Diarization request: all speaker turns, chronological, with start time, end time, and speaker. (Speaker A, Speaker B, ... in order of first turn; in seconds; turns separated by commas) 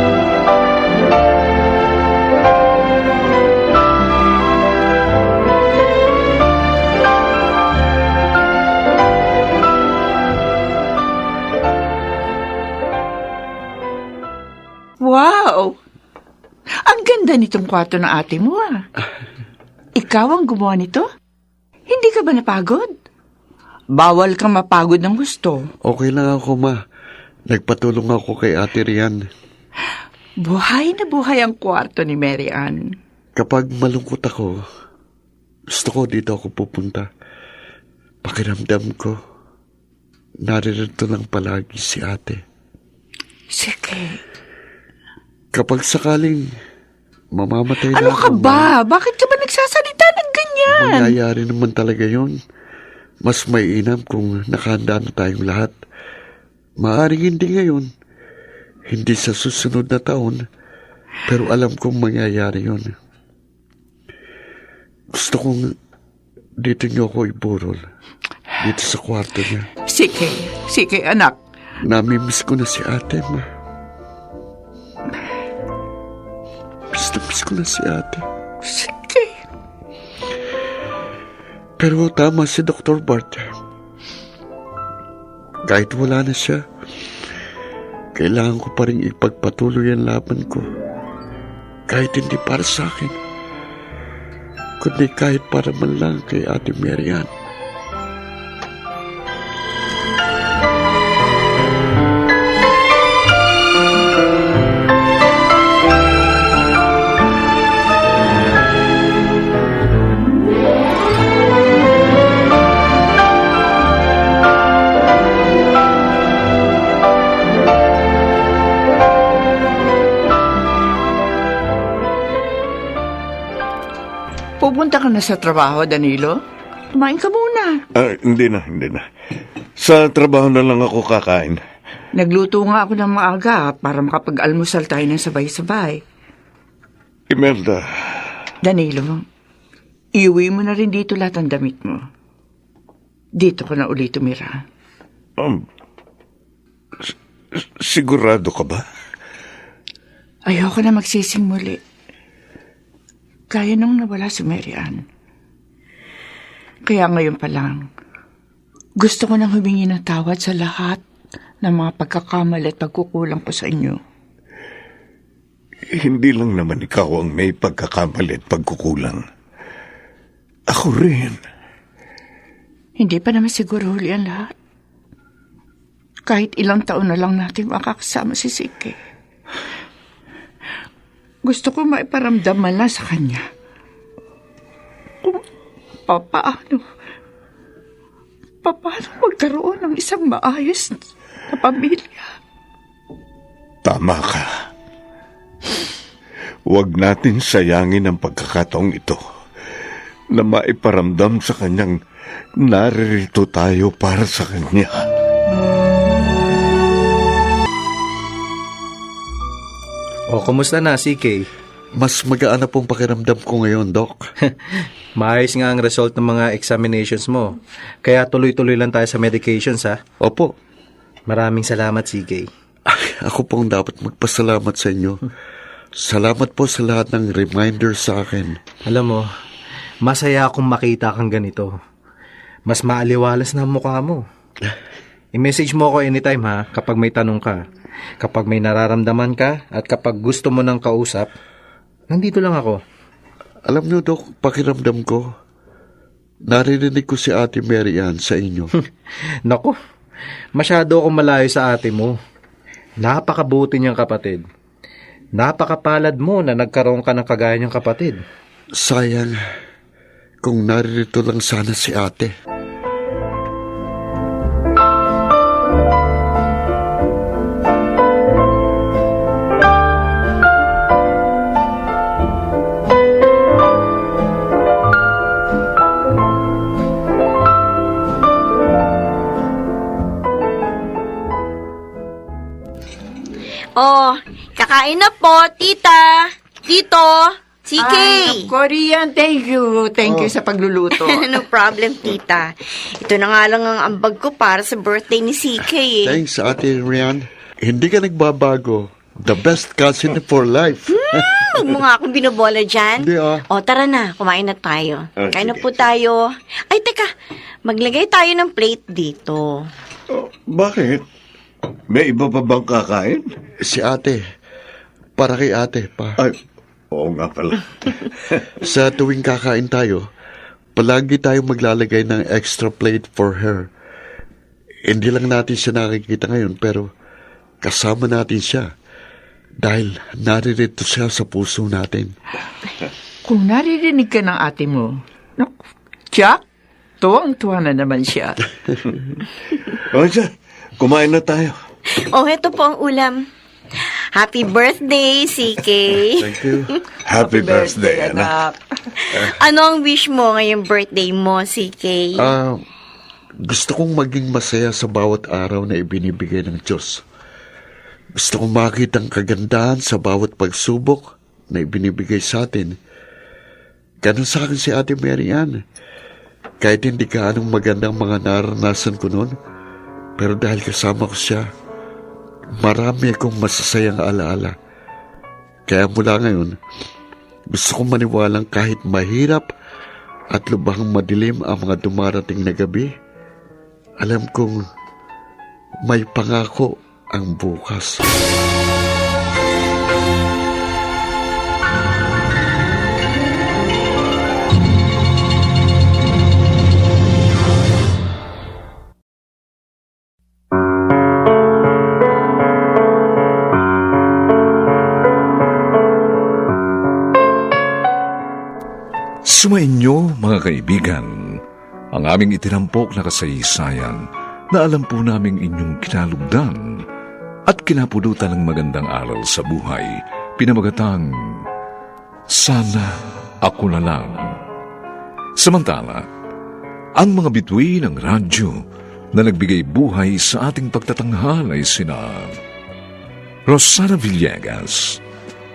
Speaker A: 15.0-15.8, Speaker A: 16.9-18.7, Speaker A: 20.0-21.0, Speaker A: 21.9-22.9, Speaker A: 23.9-25.6, Speaker B: 25.8-26.8, Speaker B: 27.5-29.2, Speaker A: 30.4-32.8, Speaker B: 33.4-34.6, Speaker B: 35.7-37.1, Speaker B: 38.2-39.2, Speaker B: 40.4-42.4, Speaker A: 43.5-44.2, Speaker B: 45.5-46.5, Speaker B: 47.3-48.7, Speaker A: 47.9-51.2, Speaker B: 50.7-52.4, Speaker B: 53.2-55.7, Speaker B: 56.8-57.9, Speaker B: 58.9-60.4, Speaker B: 61.2-62.9, Speaker B: 65.1-65.7, Speaker B: 66.6-67.8, Speaker B: 68.6-69.7, Speaker A: 69.9-71.3, Speaker B: 71.8-73.4, Speaker B: 76.9-78.2, Speaker A: 78.6-79.3, Speaker B: 81.8-83.4, Speaker B: 85.7-86.6, Speaker B: 88.1-90.7, Speaker B: 91.9-93.2, Speaker B: 94.8-97.3, Speaker A: 124.6-126.4, Speaker A: 126.9-127.8, Speaker C: 128.0-129.0, Speaker C: 129.8-131.6, Speaker A: 132.1-136.0, Speaker C: 137.3-138.3, Speaker A: 138.6-139.2, Speaker A: 140.2-142.0, Speaker A: 143.4-144.6, Speaker C: 147.1-148.8, Speaker A: 150.5-151.8, Speaker A: 153.5-155.0, Speaker A: 156.9-157.8, Speaker A: 159.0-161.0, Speaker A: 161.6-164.0, Speaker C: 165.9-169.2, Speaker C: 170.7-171.4, Speaker A: 173.0-174.5, Speaker A: 176.3-178.9, Speaker A: 181.4-183.4, Speaker A: 186.1-186.8, Speaker A: 188.6-192.3, Speaker C: 193.8-194.4, Speaker C: 196.7-199.2, Speaker C: 200.3-201.9, Speaker C: 202.6-205.0, Speaker D: 210.3-211.5, Speaker B: 211.9-214.2, Speaker D: 215.2-220.0, Speaker B: 220.2-220.5, Speaker D: 221.3-222.5, Speaker B: 222.9-225.2, Speaker B: 226.0-228.6, Speaker D: 228.8-229.2, Speaker D: 230.0-231.7, Speaker D: 232.7-234.2, Speaker D: 235.3-237.6, Speaker D: 238.2-241.3, Speaker D: 242.1-242.8, Speaker B: 243.7-245.3, Speaker B: 246.5-248.7, Speaker D: 249.4-249.7, Speaker D: 250.6-252.2, Speaker D: 253.0-254.4, Speaker D: 255.4-258.2, Speaker B: 258.7-259.4, Speaker B: 260.4-262.3, Speaker E: 283.7-288.5, Speaker A: 287.8-291.4, Speaker E: 290.9-296.1, Speaker B: 296.0-301.2, Speaker E: 300.9-307.1, Speaker B: 303.0-303.4, Speaker C: 305.2-305.8, Speaker E: 307.6-309.7, Speaker C: 310.1-311.0, Speaker C: 311.9-313.3, Speaker B: 313.6-314.2, Speaker B: 315.2-316.2, Speaker C: 316.9-318.4, Speaker B: 318.6-320.0, Speaker B: 320.8-323.7, Speaker B: 324.9-326.9, Speaker B: 327.6-328.7, Speaker B: 329.6-332.1, Speaker A: 333.2-335.5, Speaker A: 336.1-336.4, Speaker A: 337.0-338.4, Speaker C: 339.9-341.6, Speaker E: 341.9-343.3, Speaker E: 344.1-346.2, Speaker B: 346.2-346.7, Speaker C: 347.1-348.3, Speaker A: 347.1-348.5, Speaker E: 349.1-352.2, Speaker B: 352.2-352.6, Speaker B: 353.4-357.0, Speaker B: 358.2-362.7, Speaker B: 364.0-365.6, Speaker B: 366.6-369.3, Speaker B: 370.2-371.4, Speaker B: 372.6-374.5, Speaker B: 375.7-376.6, Speaker B: 377.5-379.5, Speaker B: 380.3-382.9, Speaker B: 384.0-384.6, Speaker B: 385.8-388.1, Speaker F: 409.3-411.4, Speaker F: 411.9-414.0, Speaker F: 414.5-416.6, Speaker F: 417.5-421.4, Speaker F: 422.3-424.3, Speaker F: 425.4-426.0, Speaker F: 427.0-428.5, Speaker F: 429.1-432.3, Speaker F: 433.5-435.0